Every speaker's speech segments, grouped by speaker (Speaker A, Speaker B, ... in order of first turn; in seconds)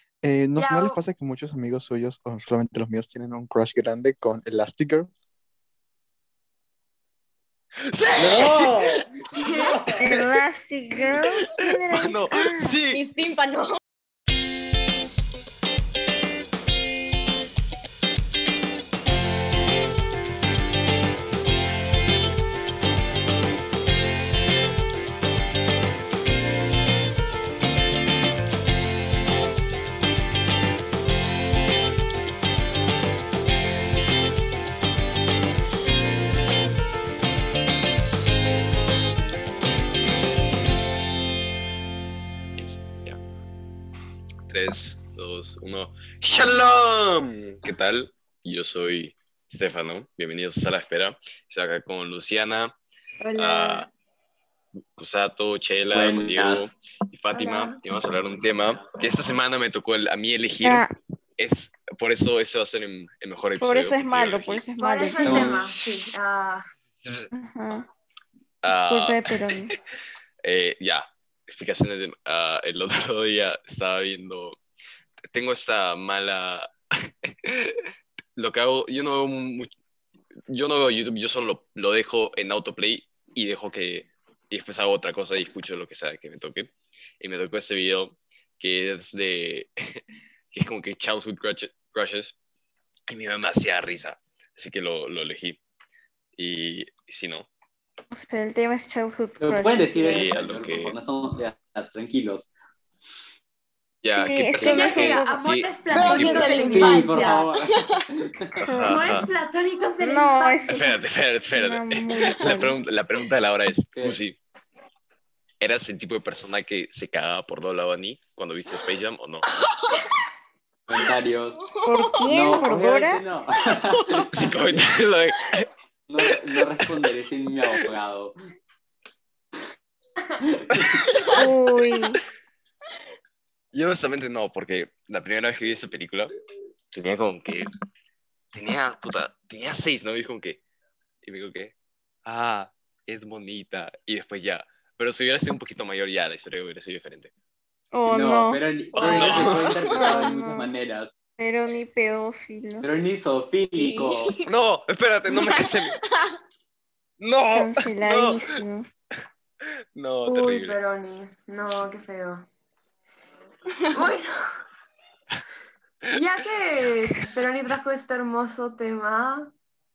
Speaker A: 0.2-5.1
Speaker B: 0.6-1.0, 9.3-9.8, 57.3-57.8, 64.8-66.7, 104.6-107.5, 108.9-111.0, 160.2-162.5, 163.9-164.3, 166.1-169.5
Speaker C: 7.8-9.0, 11.9-13.0, 42.6-43.2, 44.5-52.7, 53.4-53.9, 55.0-60.9, 61.4-64.6, 67.0-67.3, 68.6-69.7, 70.4-74.6, 75.3-76.7, 77.2-77.8, 78.3-79.7, 80.5-90.0, 90.5-92.3, 93.1-95.6, 96.4-97.5, 100.0-101.0, 104.0-106.5, 108.6-109.3, 110.7-114.4, 115.6-119.5, 124.3-125.7, 130.7-131.4, 133.7-136.3, 136.9-137.7, 138.5-140.6, 141.2-141.7, 142.2-147.3, 148.9-149.8, 154.4-156.0, 157.2-158.4, 159.9-160.8
Speaker D: 8.2-10.3, 46.3-46.6, 55.9-56.8, 58.3-58.9, 65.2-65.6, 99.4-102.5, 106.7-108.5, 113.9-114.2, 120.9-121.6, 122.3-124.2, 126.1-128.3, 130.4-131.1, 148.1-151.2, 152.8-154.3
Speaker E: 10.0-12.8, 60.6-60.9, 63.6-65.5, 67.3-67.9, 68.7-69.7, 98.1-100.3, 104.1-105.4, 106.1-107.0, 108.6-109.3, 110.0-111.0, 111.5-112.7, 121.8-123.2, 131.3-132.2, 147.9-150.7, 151.4-152.9, 157.5-158.9
Speaker F: 12.9-13.8, 53.2-53.9, 105.9-108.0, 119.7-120.0, 121.6-122.6, 123.7-124.2, 148.9-150.2, 153.7-154.4, 155.4-156.4